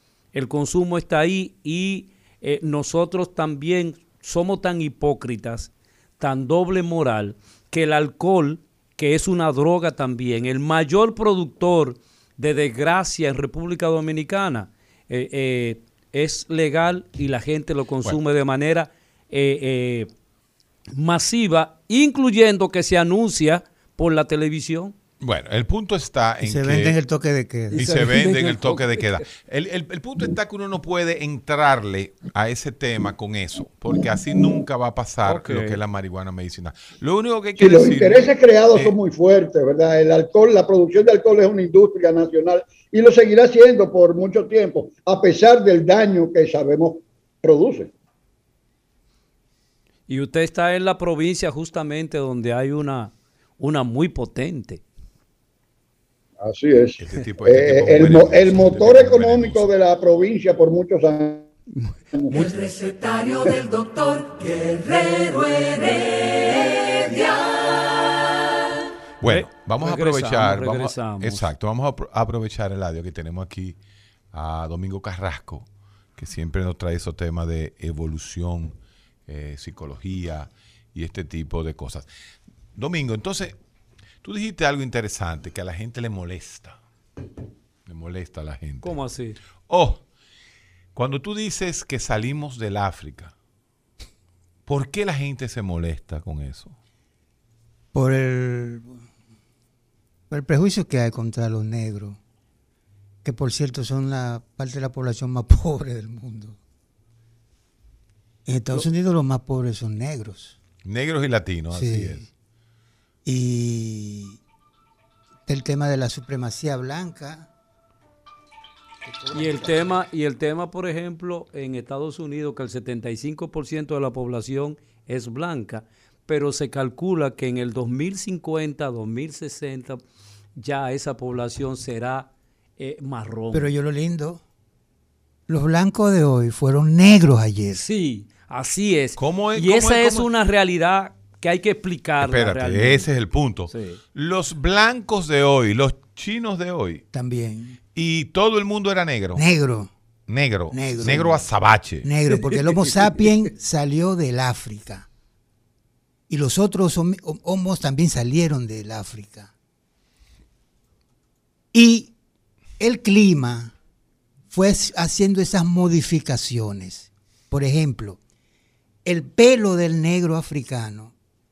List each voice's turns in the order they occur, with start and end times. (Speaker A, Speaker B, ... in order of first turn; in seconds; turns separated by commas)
Speaker A: 0.3-20.1, Speaker A: 20.9-24.9, Speaker B: 25.2-27.0, Speaker C: 26.4-28.1, Speaker A: 27.7-29.2, Speaker B: 27.7-39.0, Speaker A: 35.2-35.8, Speaker D: 37.6-47.9, Speaker A: 50.1-54.8, Speaker D: 56.4-61.5, Speaker B: 57.0-59.7, Speaker D: 62.1-62.5, Speaker E: 62.3-68.8, Speaker B: 69.2-73.8, Speaker A: 69.2-71.5, Speaker B: 74.3-82.1, Speaker B: 82.8-83.5, Speaker B: 84.2-86.8, Speaker B: 87.8-89.0, Speaker A: 88.8-89.4, Speaker B: 89.7-90.0, Speaker B: 90.9-93.3, Speaker B: 94.7-96.7, Speaker C: 97.9-99.0, Speaker C: 100.3-102.2, Speaker C: 103.2-106.6, Speaker C: 108.5-110.5, Speaker B: 110.8-112.2, Speaker C: 111.7-112.2, Speaker C: 113.2-114.4, Speaker C: 115.5-117.5, Speaker C: 119.0-120.0, Speaker A: 119.3-130.0, Speaker A: 130.6-133.7, Speaker C: 133.5-134.4, Speaker C: 135.5-137.8, Speaker A: 137.7-143.1, Speaker B: 139.2-140.3, Speaker B: 142.2-147.0, Speaker A: 143.7-144.0, Speaker C: 147.1-147.8, Speaker B: 147.9-149.4, Speaker C: 149.3-149.9, Speaker B: 150.3-152.1, Speaker C: 150.7-151.5, Speaker C: 152.0-155.1, Speaker C: 156.3-159.5, Speaker C: 161.7-162.1, Speaker C: 162.8-163.7, Speaker C: 164.5-168.2, Speaker C: 169.0-171.1